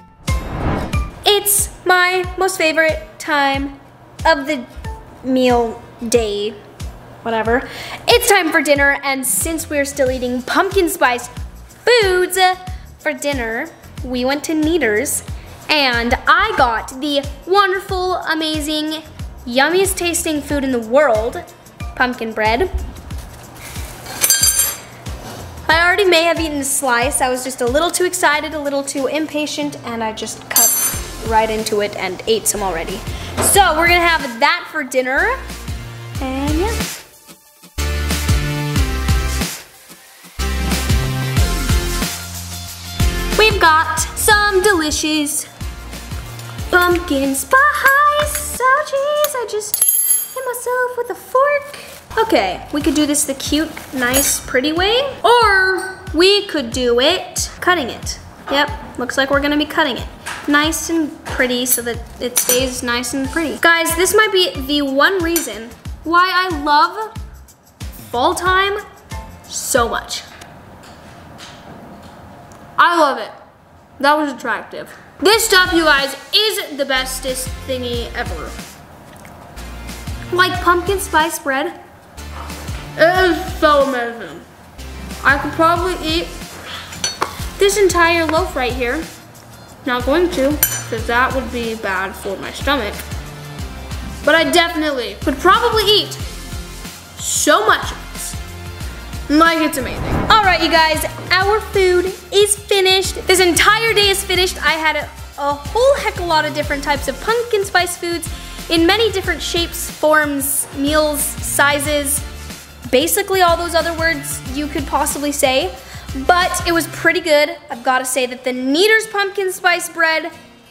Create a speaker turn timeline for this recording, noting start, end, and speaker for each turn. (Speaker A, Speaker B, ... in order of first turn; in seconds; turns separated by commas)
Speaker A: 1.2-4.7, Speaker A: 5.2-6.6, Speaker A: 7.2-22.7, Speaker A: 25.6-35.4, Speaker A: 36.2-36.8, Speaker A: 43.4-45.5, Speaker A: 46.7-67.1, Speaker A: 68.0-68.8, Speaker A: 69.5-70.3, Speaker A: 72.8-73.3, Speaker A: 74.0-78.6, Speaker A: 80.3-81.8, Speaker A: 83.0-84.5, Speaker A: 85.2-86.4, Speaker A: 87.6-89.1, Speaker A: 89.8-93.0, Speaker A: 94.2-96.2, Speaker A: 97.2-98.4, Speaker A: 99.3-112.2, Speaker A: 112.8-120.3